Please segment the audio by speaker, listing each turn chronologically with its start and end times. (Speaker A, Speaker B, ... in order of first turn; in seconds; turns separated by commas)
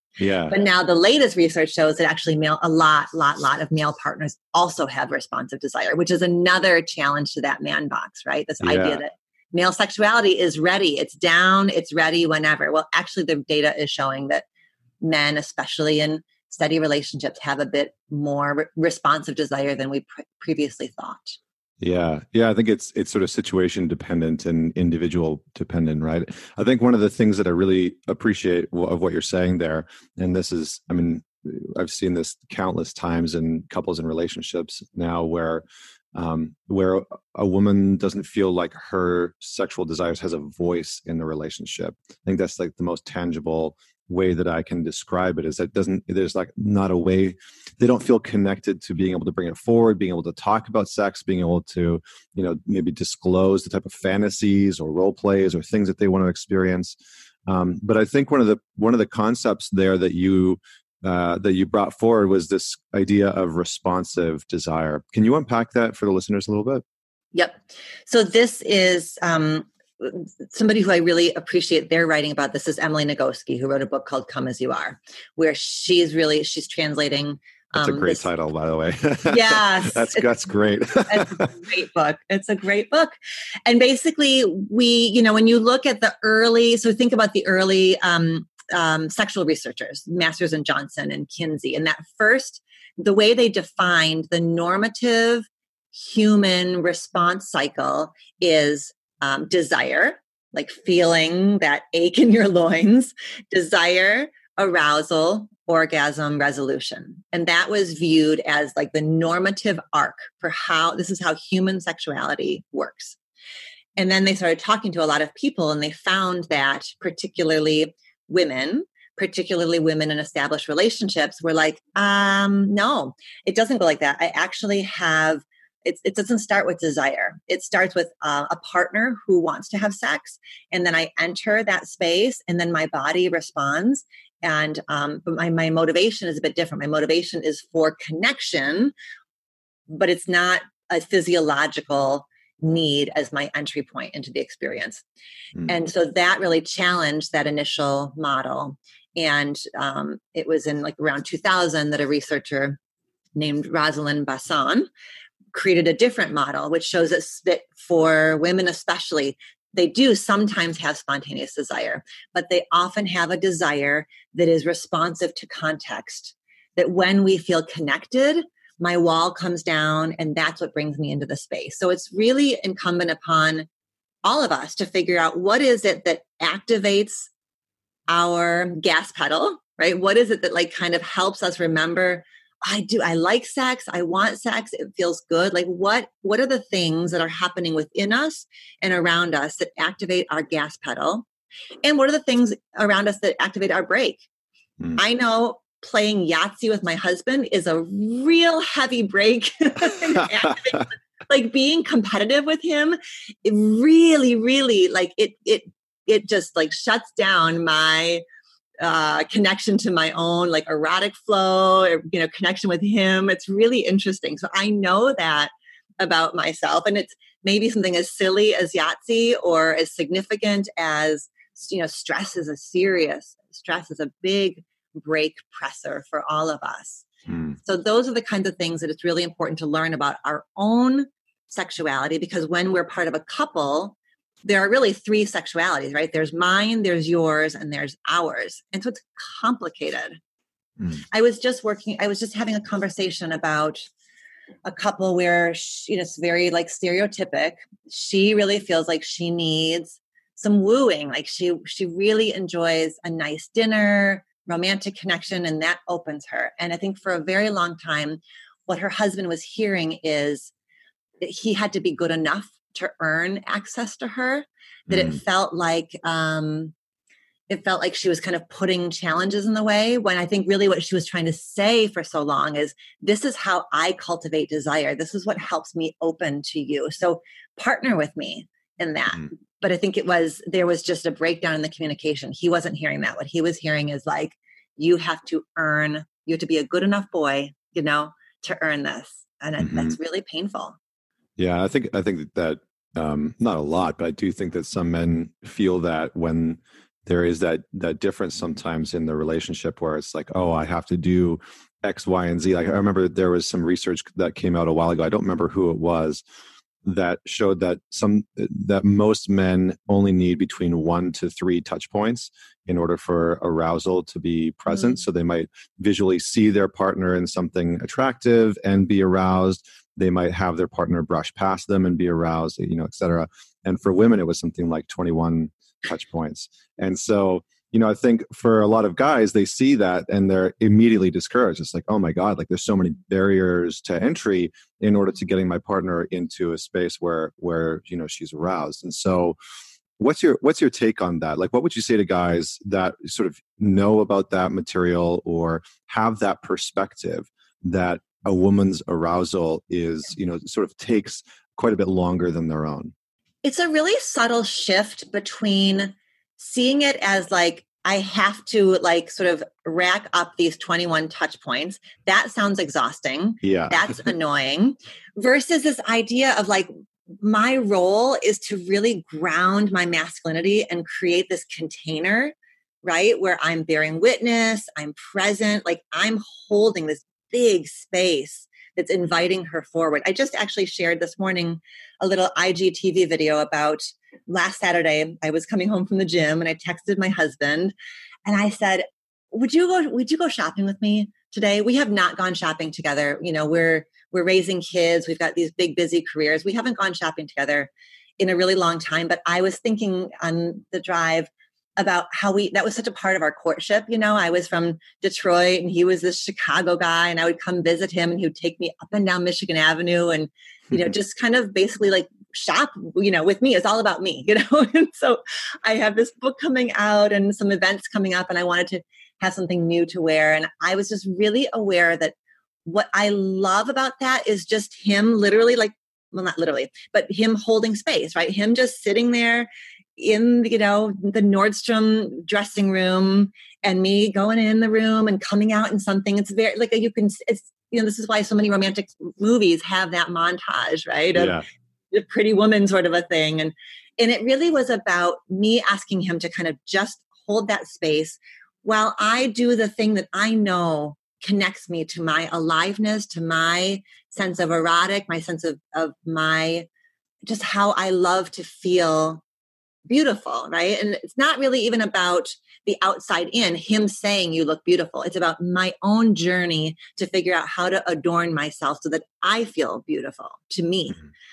Speaker A: 0.2-0.6, Speaker B: 0.5-14.4, Speaker A: 8.6-9.0, Speaker B: 15.0-21.4, Speaker A: 21.8-66.8, Speaker B: 67.3-78.2, Speaker A: 77.7-81.5, Speaker B: 79.3-80.3, Speaker B: 80.9-83.1, Speaker B: 83.7-113.2, Speaker B: 114.0-138.9, Speaker B: 139.9-145.0, Speaker B: 145.7-152.8, Speaker B: 153.3-154.9, Speaker B: 155.5-173.7, Speaker B: 174.2-177.3, Speaker B: 178.1-191.3, Speaker B: 191.8-194.2, Speaker B: 195.0-208.2, Speaker A: 200.1-200.7, Speaker B: 208.8-227.1, Speaker A: 227.3-227.6, Speaker B: 227.6-240.2, Speaker B: 241.1-243.8, Speaker B: 244.6-260.5, Speaker B: 261.2-266.7, Speaker A: 264.9-265.2, Speaker B: 267.5-290.8, Speaker A: 289.6-290.0, Speaker A: 291.4-306.2, Speaker A: 306.8-339.4, Speaker A: 340.0-352.9, Speaker B: 353.4-366.7, Speaker A: 363.4-363.9, Speaker B: 367.2-372.3, Speaker B: 372.8-387.7, Speaker B: 388.2-456.7, Speaker A: 441.1-441.4, Speaker B: 457.3-459.2, Speaker B: 459.9-471.0